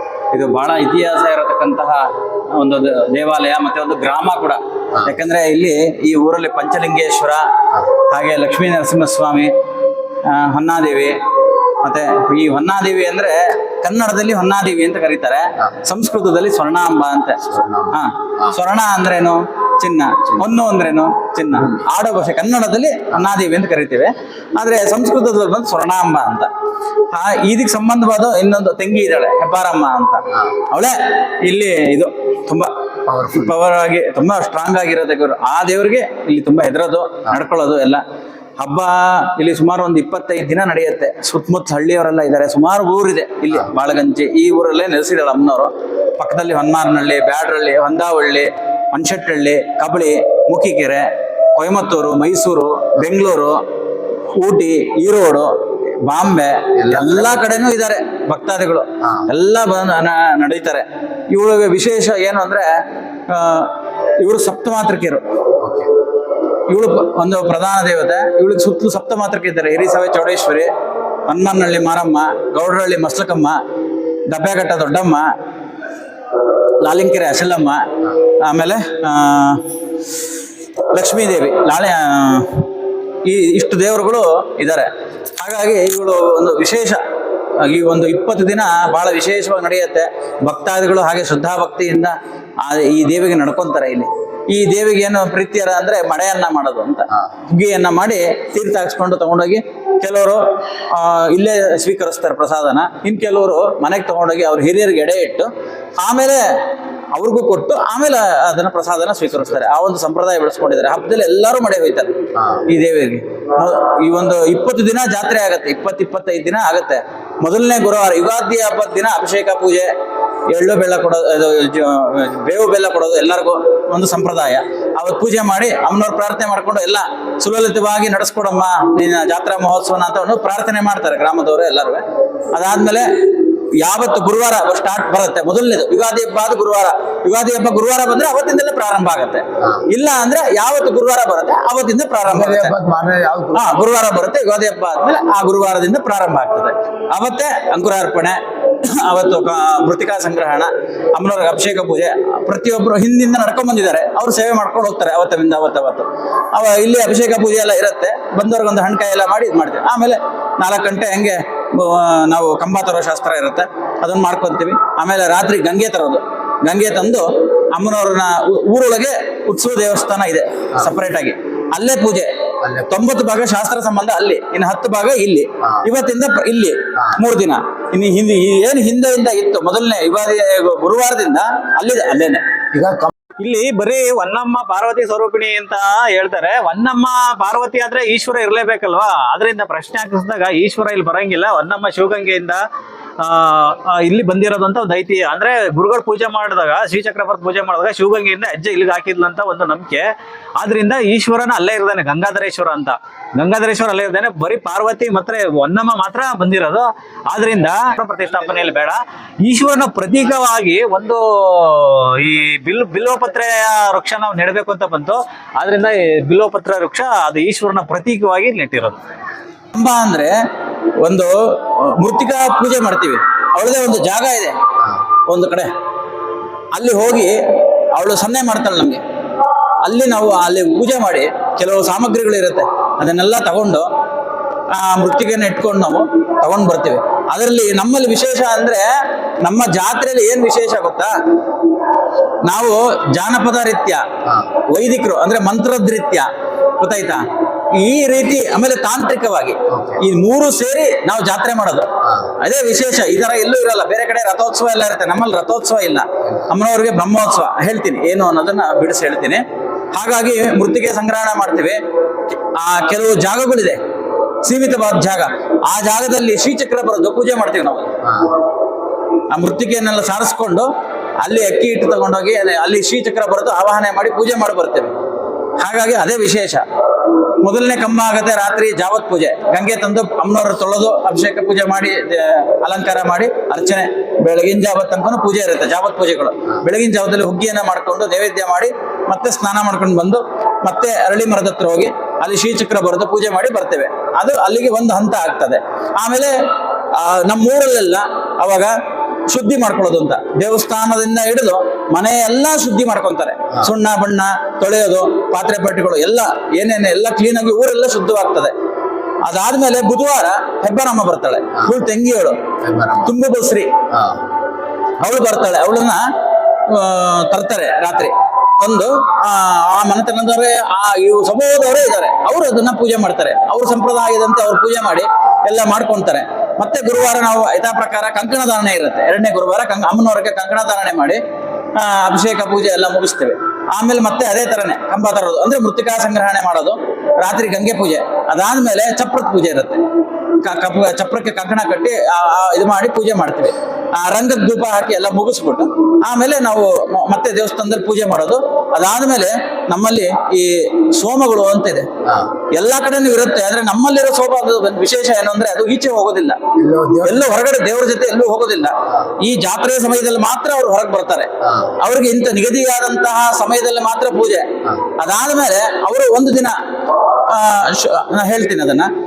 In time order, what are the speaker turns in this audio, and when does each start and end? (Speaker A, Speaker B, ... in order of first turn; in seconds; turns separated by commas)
Speaker A: 0.3-7.5, Speaker A: 8.1-9.5, Speaker A: 10.2-11.2, Speaker A: 11.8-26.5, Speaker B: 17.4-18.5, Speaker A: 27.1-32.7, Speaker B: 33.1-33.5, Speaker A: 33.3-38.0, Speaker A: 38.6-53.6, Speaker A: 54.3-55.5, Speaker A: 56.0-62.7, Speaker B: 56.8-57.5, Speaker A: 63.3-65.2, Speaker B: 65.6-65.9, Speaker A: 66.7-70.7, Speaker A: 71.3-73.6, Speaker A: 74.3-75.3, Speaker A: 76.8-77.8, Speaker A: 78.4-79.6, Speaker A: 80.9-82.6, Speaker A: 83.2-87.0, Speaker A: 87.6-106.6, Speaker A: 107.1-112.2, Speaker B: 112.3-112.6, Speaker A: 112.7-119.9, Speaker A: 120.5-133.1, Speaker A: 133.8-142.7, Speaker B: 142.3-143.8, Speaker A: 143.5-172.3, Speaker B: 172.6-172.9, Speaker A: 172.9-182.4, Speaker B: 182.7-183.1, Speaker C: 183.4-192.6, Speaker C: 193.2-200.0, Speaker A: 196.1-196.7, Speaker A: 197.6-198.1, Speaker C: 200.6-219.0, Speaker A: 213.9-214.3, Speaker A: 219.7-220.3, Speaker A: 221.0-224.5, Speaker A: 225.3-225.7, Speaker A: 226.7-227.4, Speaker A: 227.9-229.0, Speaker A: 229.8-233.9, Speaker A: 234.7-238.9, Speaker A: 239.4-241.1, Speaker A: 242.4-244.0, Speaker A: 244.7-246.3, Speaker A: 246.8-251.9, Speaker B: 249.7-250.0, Speaker B: 252.0-252.3, Speaker A: 252.4-261.8, Speaker A: 262.5-263.8, Speaker A: 264.4-267.9, Speaker B: 268.0-268.3, Speaker A: 269.3-270.7, Speaker A: 271.2-274.9, Speaker A: 275.6-276.6, Speaker A: 277.4-296.4, Speaker A: 296.9-298.7, Speaker A: 299.3-308.5, Speaker A: 309.2-312.4, Speaker B: 312.6-313.1, Speaker A: 313.1-313.7, Speaker B: 313.9-314.2, Speaker A: 315.0-316.0, Speaker A: 316.7-331.2, Speaker A: 331.8-339.8, Speaker A: 340.4-351.9, Speaker B: 352.0-352.3, Speaker A: 352.5-356.4, Speaker B: 356.6-357.4, Speaker A: 357.0-364.5, Speaker B: 361.4-361.7, Speaker A: 365.0-366.6, Speaker A: 367.2-368.9